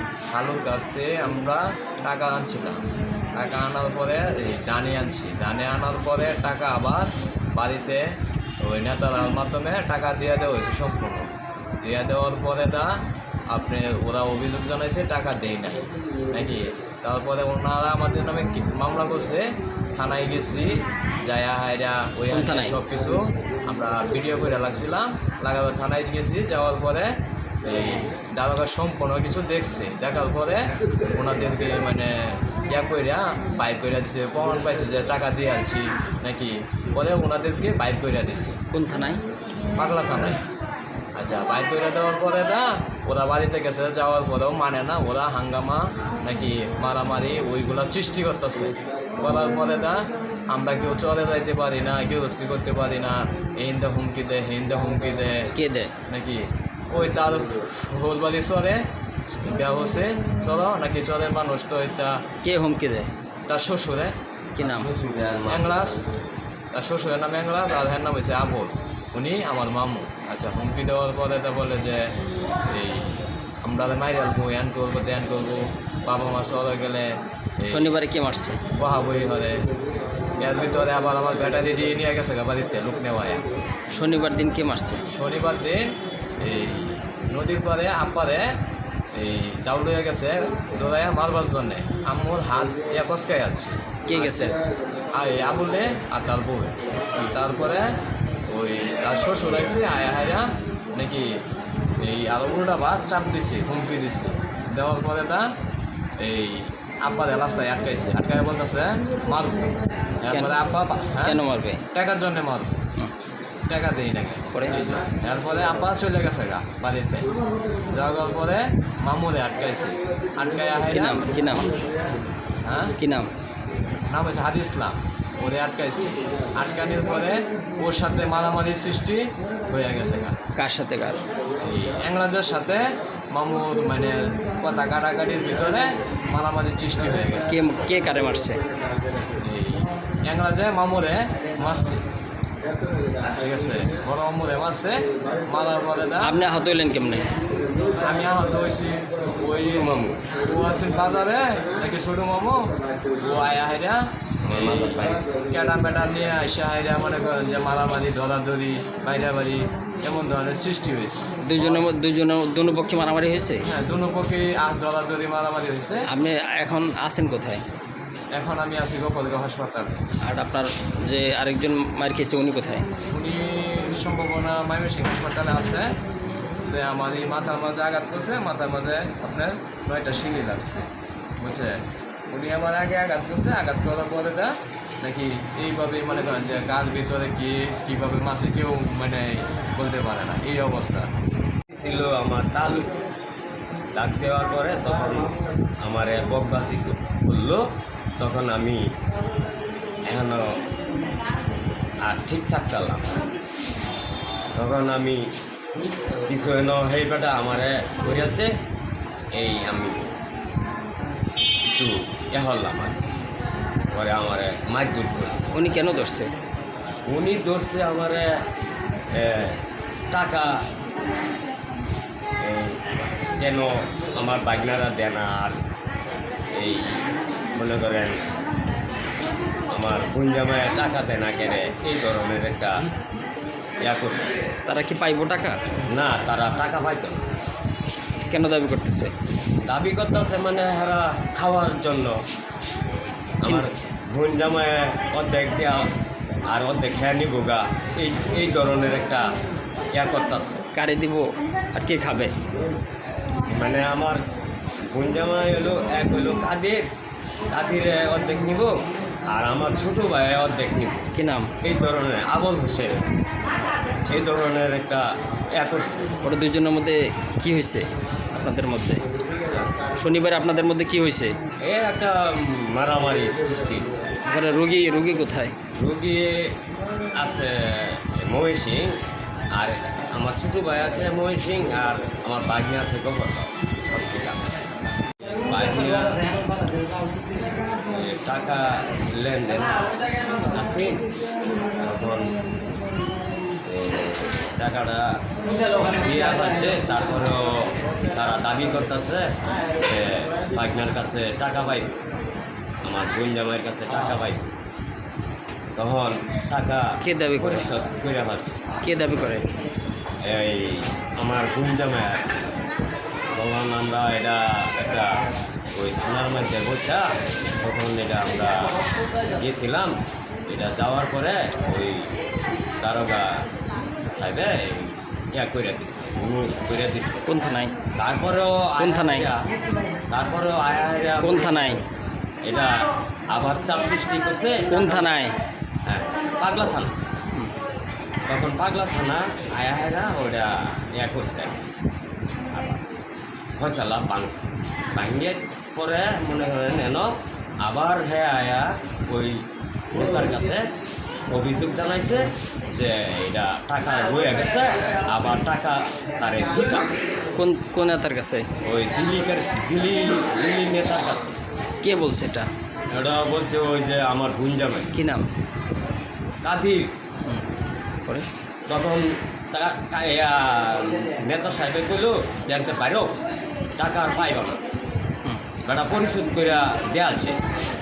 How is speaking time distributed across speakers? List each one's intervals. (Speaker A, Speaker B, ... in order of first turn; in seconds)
Speaker A: 0.3-2.8, 3.4-8.0, 8.6-38.6, 39.8-40.4, 41.1-55.5, 56.1-58.8, 59.4-62.2, 63.5-64.2, 65.5-66.1, 66.7-72.1, 72.7-77.9, 78.8-79.6, 80.4-83.4, 85.1-85.9, 86.4-88.5, 89.2-94.3, 95.1-98.0, 98.5-101.3, 102.0-105.5, 106.2-111.4, 111.9-112.8, 113.7-117.3, 117.9-121.3, 122.6-122.9, 124.1-130.3, 131.6-137.5, 139.4-142.0, 143.2-146.4, 147.9-161.8, 163.6-166.1, 168.3-170.0, 173.1-180.9, 181.4-191.1
Speaker B: 22.3-22.8, 38.7-39.2, 55.5-55.9, 62.4-63.1, 64.5-64.9, 77.7-78.6, 83.9-85.0, 94.1-94.6, 110.3-110.6, 111.2-111.8, 120.9-121.8, 123.0-123.3, 130.6-131.2, 137.5-138.6, 146.2-147.3, 161.4-163.6, 166.1-167.6, 170.2-172.9, 215.5-216.3, 234.7-235.6, 238.3-239.1, 250.7-252.3, 261.1-261.5, 266.2-269.0, 269.9-271.4, 274.2-275.5, 307.0-307.7, 308.8-309.5, 327.3-327.7, 328.8-329.3, 331.2-331.8, 334.7-335.3, 357.4-358.4, 361.8-362.5, 364.9-365.3
Speaker C: 64.6-65.8, 149.7-150.2, 154.4-155.3, 191.7-192.9, 193.9-197.6, 198.2-198.8, 200.1-200.6, 202.0-203.3, 204.6-205.2, 206.2-208.5, 209.3-210.1, 211.7-213.0, 213.9-215.4, 217.1-218.3, 219.1-220.5, 222.4-222.8, 223.4-225.6, 226.5-228.2, 229.7-232.8, 233.8-234.3, 235.9-237.3, 239.7-242.2, 243.4-245.9, 246.5-249.2, 249.9-250.6, 253.4-254.2, 254.9-256.8, 257.5-258.7, 259.3-261.1, 261.6-263.0, 264.1-266.1, 269.3-269.7, 271.6-274.1, 275.7-276.5, 277.1-279.0, 279.5-284.4, 285.1-286.4, 287.9-291.0, 291.8-292.4, 293.6-295.1, 295.7-301.9, 302.8-304.4, 305.8-308.6, 310.2-312.3, 313.3-315.2, 315.7-317.1, 317.6-318.8, 319.3-319.9, 320.5-322.1, 322.8-323.5, 324.1-327.2, 328.0-329.5, 330.1-331.8, 332.4-335.1, 335.9-336.9, 338.3-341.6, 342.5-342.8, 343.6-350.7, 351.3-356.9, 358.6-361.4, 362.9-364.9, 366.4-366.9, 368.7-373.2, 373.8-374.6, 375.6-377.4